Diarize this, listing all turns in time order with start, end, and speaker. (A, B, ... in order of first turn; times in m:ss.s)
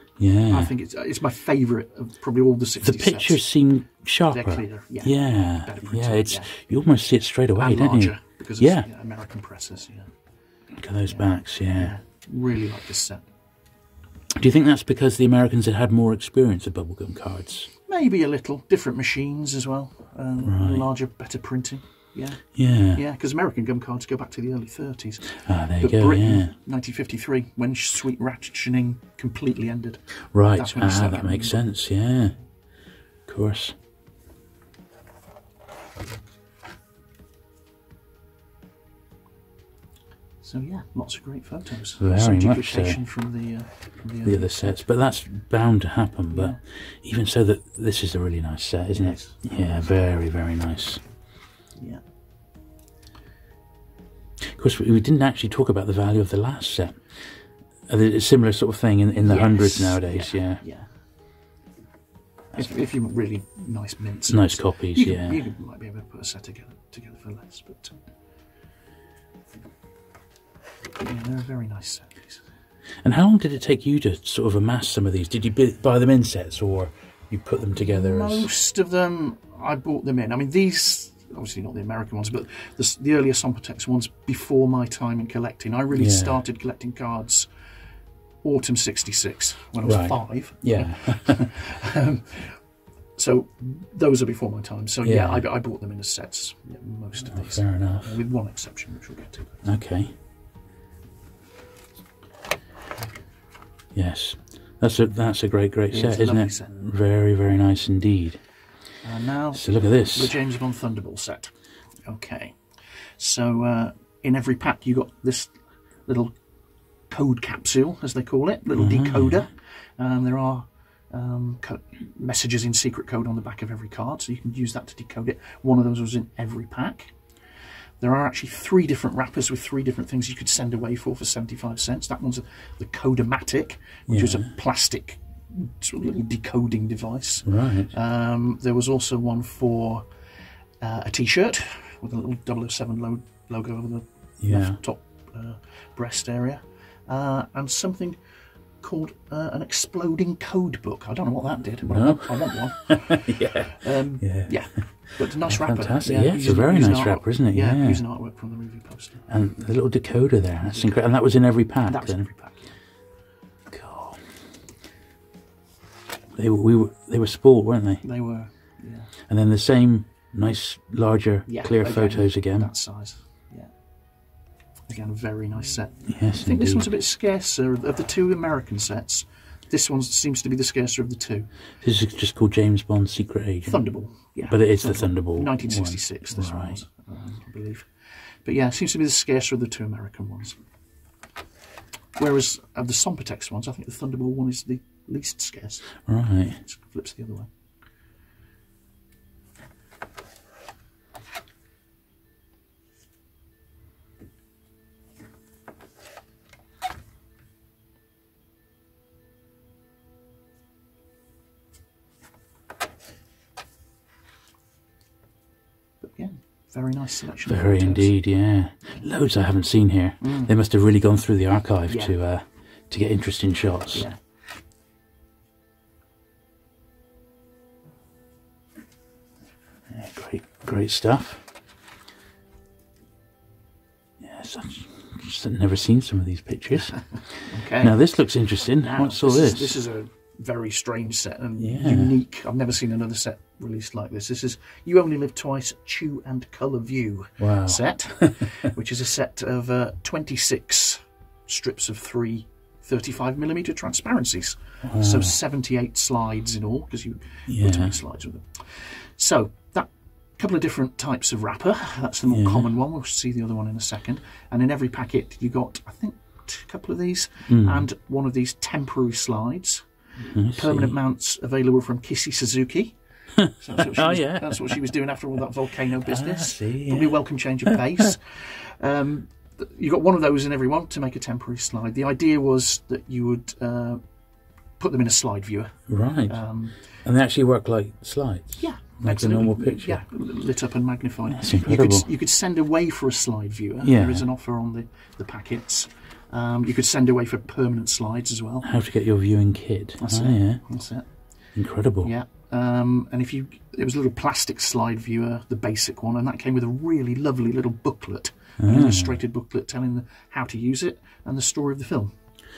0:00.2-0:00.7 A
0:00.5-0:03.4 B
0:02.8-0:08.9 A
0:04.3-0:06.7 B
0:07.6-0:10.1 B
0:10.8-0:11.9 A
0:11.1-0:13.2 B
0:14.3-0:17.7 A
0:17.9-0:30.0 B
0:20.4-0:20.9 A
0:22.5-0:23.0 A
0:25.4-0:26.5 A
0:30.3-0:32.4 A
0:30.5-0:31.6 B
0:33.3-0:33.8 A
0:40.4-0:44.8 B
0:42.0-0:43.0 A
0:44.2-0:51.0 A
0:46.3-0:46.6 B
0:48.9-0:49.4 B
0:51.8-0:52.0 B
0:54.4-0:57.0 A
0:57.9-1:00.6 A
0:59.2-1:00.9 B
1:02.5-1:08.0 B
1:04.3-1:05.4 A
1:11.0-1:12.4 B
1:13.0-1:18.5 A
1:17.8-1:27.5 B
1:25.9-1:26.4 A
1:28.4-1:32.6 B
1:29.8-1:31.5 A
1:33.2-1:39.6 B
1:35.0-1:35.4 A
1:37.3-1:38.1 A
1:39.6-1:40.1 A
1:44.0-1:48.4 A
1:45.9-1:46.7 B
1:49.0-1:51.5 B
1:49.5-1:50.4 A
1:52.1-1:52.6 B
1:53.2-1:55.5 B
1:56.1-1:56.4 B
1:57.1-2:07.1 B
1:58.8-1:59.5 A
2:08.0-2:20.1 B
2:14.1-2:14.5 A
2:17.4-2:17.9 A
2:20.8-2:28.2 B
2:24.4-2:24.8 A
2:28.8-2:39.2 B
2:31.8-2:38.0 A
2:39.3-2:42.3 A
2:40.7-2:41.0 B
2:41.8-2:42.8 B
2:43.7-2:44.2 A
2:46.4-2:48.0 A
2:48.0-2:49.1 B
2:49.3-2:52.7 A
2:51.5-2:53.7 B
2:54.9-3:01.5 B
2:56.1-2:56.9 A
3:01.8-3:03.9 A
3:03.6-3:07.9 B
3:04.5-3:06.8 A
3:08.4-3:10.6 B
3:12.2-3:16.0 B
3:16.0-3:16.6 A
3:16.6-3:17.5 B
3:36.0-3:38.1 B
3:37.4-3:44.1 A
3:40.2-3:40.5 B
3:41.9-3:42.2 B
3:43.9-3:44.2 B
3:49.9-3:51.4 A
3:54.2-3:59.8 A
3:56.8-3:58.0 B
3:58.8-4:29.9 B
4:01.6-4:02.1 A
4:07.4-4:08.6 A
4:14.8-4:15.3 A
4:17.5-4:18.0 A
4:22.3-4:22.7 A
4:27.5-4:27.9 A
4:30.2-4:31.0 A
4:30.5-4:33.0 B
4:33.4-4:34.8 A
4:33.5-4:44.0 B
4:36.0-4:38.1 A
4:44.8-4:46.8 B
4:45.9-4:46.4 A
4:47.0-4:50.0 A
4:48.6-4:58.7 B
4:51.3-4:52.1 A
4:53.8-4:54.3 A
4:58.6-5:00.6 A
5:00.0-5:01.0 B
5:01.6-5:02.1 A
5:02.0-5:12.1 B
5:08.6-5:09.2 A